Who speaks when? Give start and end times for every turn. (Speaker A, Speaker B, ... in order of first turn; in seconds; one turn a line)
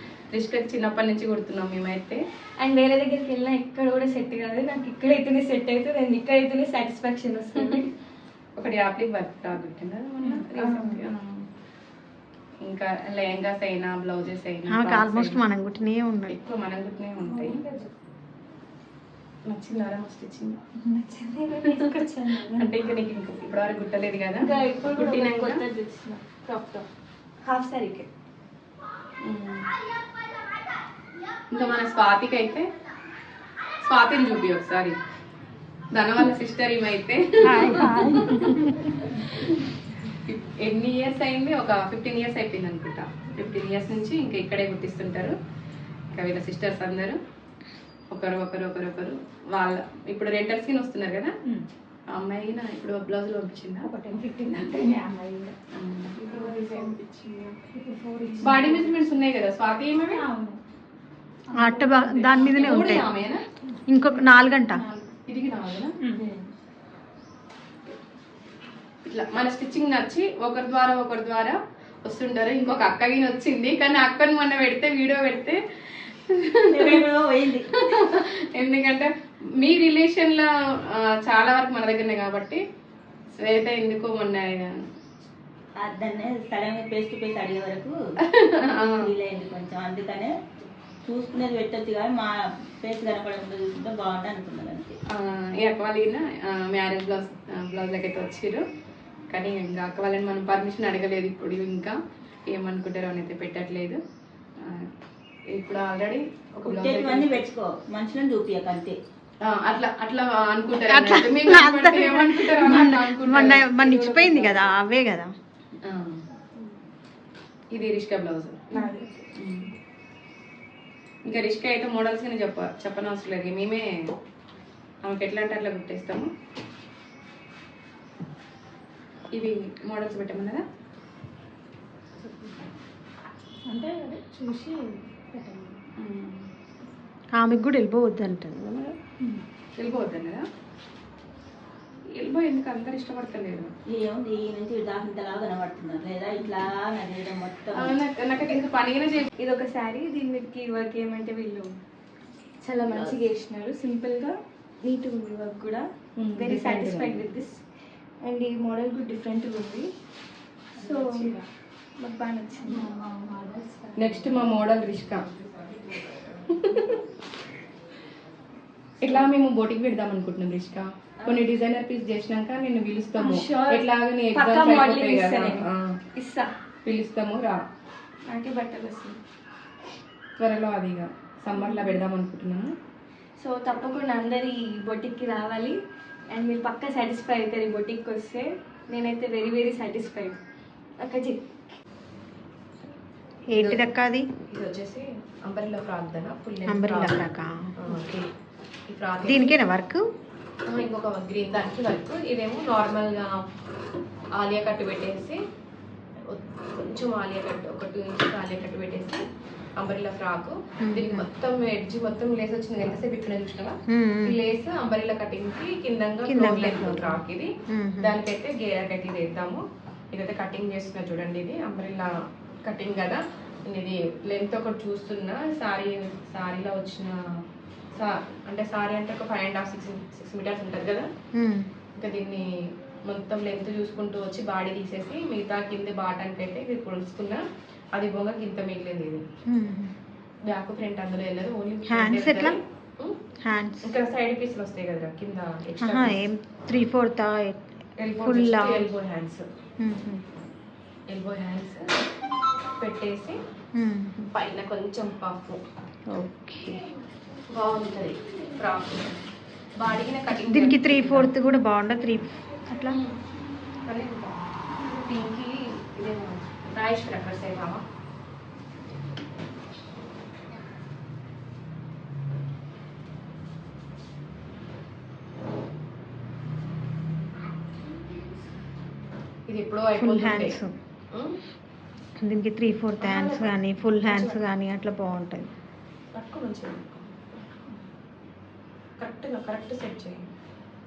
Speaker A: 0.3-2.2
Speaker B: 2.6-7.9
Speaker A: 8.6-11.1
Speaker B: 10.5-11.5
Speaker A: 12.6-15.5
Speaker C: 14.7-16.4
Speaker A: 16.3-17.6
Speaker D: 17.2-17.9
Speaker A: 19.5-20.6
Speaker D: 20.8-22.7
Speaker A: 21.6-25.6
Speaker B: 24.4-26.9
Speaker B: 27.4-28.1
Speaker A: 29.2-29.7
Speaker A: 31.5-32.7
Speaker A: 33.8-35.0
Speaker A: 35.9-45.4
Speaker D: 37.5-39.0
Speaker A: 46.1-47.2
Speaker A: 48.1-51.3
Speaker A: 52.1-53.9
Speaker D: 53.8-55.5
Speaker A: 55.7-57.0
Speaker B: 56.2-57.6
Speaker D: 56.3-57.0
Speaker D: 57.7-59.0
Speaker A: 58.4-60.2
Speaker D: 60.1-60.6
Speaker D: 61.5-63.0
Speaker C: 61.5-63.1
Speaker A: 62.5-63.4
Speaker C: 63.9-64.8
Speaker D: 64.7-65.1
Speaker A: 65.3-66.0
Speaker D: 66.0-66.4
Speaker A: 69.0-77.0
Speaker E: 76.7-77.8
Speaker A: 77.7-82.6
Speaker A: 83.4-84.8
Speaker E: 85.8-88.0
Speaker A: 88.2-89.1
Speaker E: 89.0-90.3
Speaker E: 91.0-95.0
Speaker A: 95.1-98.6
Speaker A: 99.3-102.0
Speaker A: 102.5-104.0
Speaker A: 104.6-104.9
Speaker A: 105.5-107.4
Speaker E: 106.7-109.0
Speaker A: 109.4-114.7
Speaker C: 110.9-115.3
Speaker A: 115.8-116.2
Speaker A: 117.7-118.8
Speaker D: 118.7-119.2
Speaker A: 119.3-119.7
Speaker A: 121.3-124.1
Speaker A: 125.0-126.3
Speaker A: 129.3-130.6
Speaker D: 132.2-132.6
Speaker D: 133.7-135.8
Speaker A: 136.0-136.5
Speaker C: 137.3-139.0
Speaker A: 139.8-140.5
Speaker A: 142.2-143.7
Speaker E: 143.9-148.0
Speaker A: 147.7-149.3
Speaker B: 149.4-151.8
Speaker B: 152.6-157.6
Speaker A: 156.2-157.2
Speaker B: 158.2-159.9
Speaker B: 160.8-161.4
Speaker D: 160.8-161.2
Speaker B: 162.0-162.9
Speaker D: 162.7-164.5
Speaker A: 164.0-165.3
Speaker A: 166.5-167.0
Speaker A: 169.0-176.0
Speaker B: 173.2-176.5
Speaker A: 176.8-177.6
Speaker B: 178.3-179.2
Speaker A: 180.4-182.7
Speaker B: 183.4-185.8
Speaker B: 186.3-190.4
Speaker B: 191.0-191.4
Speaker C: 193.5-194.3
Speaker A: 193.6-193.9
Speaker A: 194.5-198.3
Speaker C: 196.7-198.2
Speaker A: 198.9-199.6
Speaker C: 199.3-200.1
Speaker A: 200.7-203.5
Speaker A: 204.3-205.4
Speaker A: 206.3-209.2
Speaker A: 209.8-222.1
Speaker C: 210.8-211.3
Speaker C: 213.9-214.4
Speaker C: 216.3-218.2
Speaker A: 222.7-227.2
Speaker A: 227.9-231.1
Speaker C: 231.3-231.7
Speaker A: 232.0-239.2
Speaker C: 239.5-239.9
Speaker A: 240.4-243.2
Speaker C: 241.8-242.6
Speaker C: 243.4-243.9
Speaker A: 243.8-246.2
Speaker C: 245.8-247.6
Speaker A: 248.0-249.5
Speaker C: 248.2-248.9
Speaker C: 249.8-250.2
Speaker A: 251.1-251.9
Speaker A: 252.8-253.4
Speaker C: 253.7-254.2
Speaker A: 254.2-255.6
Speaker C: 256.1-256.9
Speaker A: 257.5-259.2
Speaker A: 259.8-261.3
Speaker C: 260.3-263.0
Speaker A: 262.9-263.1
Speaker A: 263.9-267.8
Speaker A: 279.5-280.6
Speaker C: 280.0-280.7
Speaker A: 281.1-281.4
Speaker C: 282.2-285.5
Speaker A: 283.0-284.4
Speaker A: 286.1-287.2
Speaker A: 289.0-290.3